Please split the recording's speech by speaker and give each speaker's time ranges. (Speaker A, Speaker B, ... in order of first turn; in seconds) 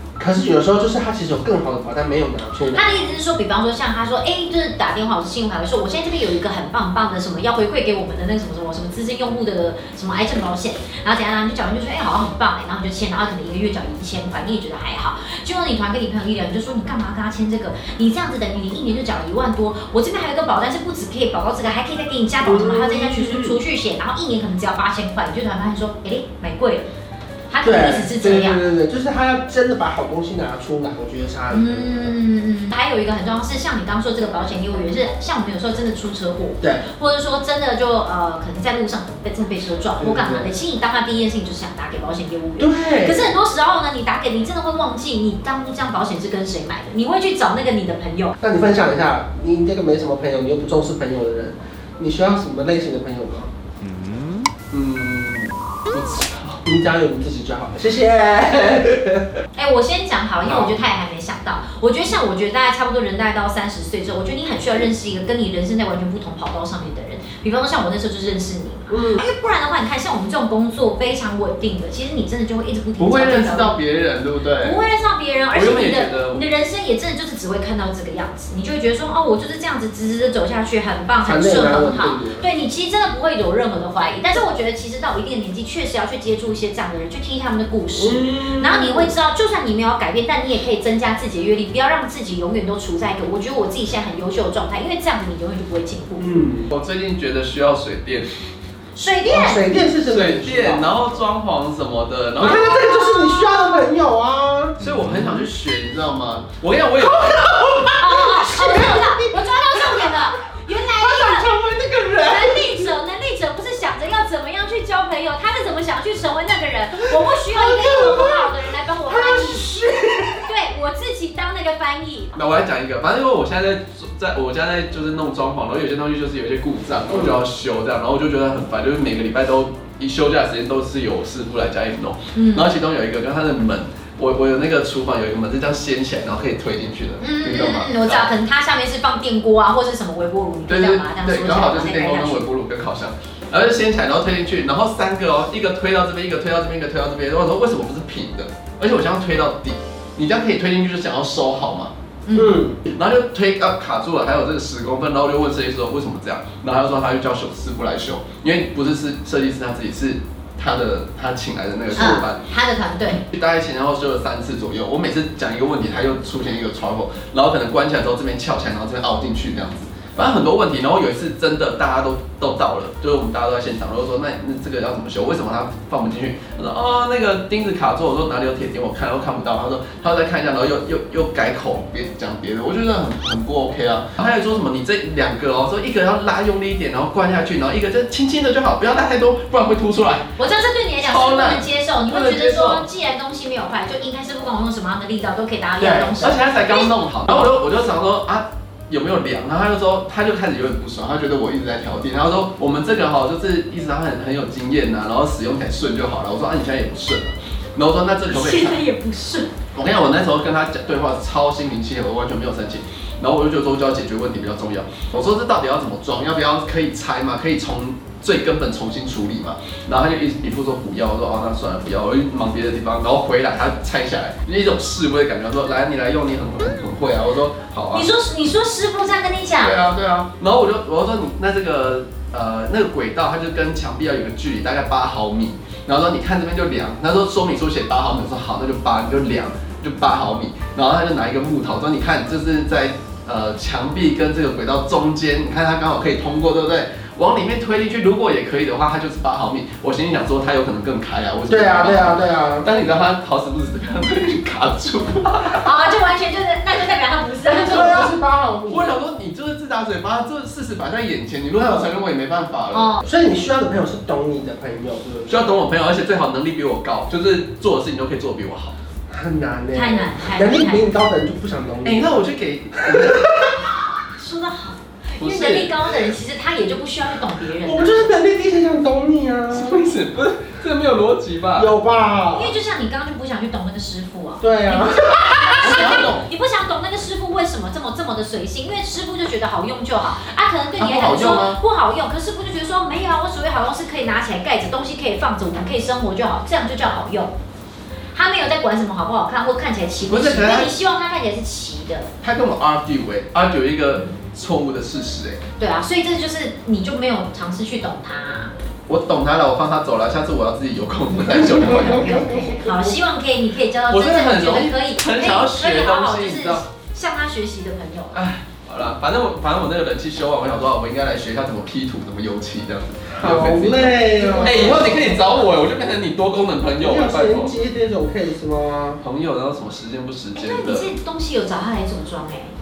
Speaker A: 0.2-2.8, 22.4-23.6, 27.6-32.2, 40.0-40.6, 42.6-43.3, 48.4-53.5, 56.7-59.4, 60.4-60.8, 68.9-69.2, 81.2-82.5, 87.9-89.1, 96.2-96.7, 99.2-100.9, 102.4-105.2, 107.0-110.3, 110.9-112.9, 117.2-118.5, 119.1-120.5, 152.3-152.8, 161.9-162.2, 195.8-196.3, 251.5-252.7, 257.4-259.0, 261.6-261.9, 263.0-265.5, 269.1-272.2, 275.4-275.6, 277.6-279.8, 281.6-282.5, 284.4-286.1, 311.5-313.0, 323.1-325.3, 326.6-329.0
Speaker B: 2.7-26.9, 27.5-28.6, 31.5-48.4, 59.5-73.8, 74.6-96.4, 99.0-99.7, 102.4-103.7, 108.0-111.6, 112.1-119.7, 120.4-122.4, 132.3-132.7, 137.2-142.5, 152.3-152.6, 161.9-163.2, 190.4-196.9, 208.3-209.5, 227.9-229.8, 255.4-258.1, 262.7-263.0, 269.7-270.9, 274.1-278.1, 282.3-297.3, 298.1-302.1, 305.6-308.5, 311.2-318.2, 324.2-325.4, 330.4-332.5
Speaker C: 54.7-56.6, 73.0-74.8, 75.5-76.4, 96.7-98.3, 100.1-102.6, 104.8-107.4, 122.4-138.3, 140.7-151.9, 152.9-162.4, 163.3-190.3, 191.0-192.9, 196.2-208.8, 209.7-228.1, 229.6-255.7, 258.7-262.9, 265.3-268.8, 271.8-273.3, 275.2-275.7, 279.5-281.7, 285.6-286.3, 290.8-291.6, 300.1-300.7, 302.2-305.4, 308.9-312.2, 313.9-316.6, 318.1-327.6, 329.0-330.9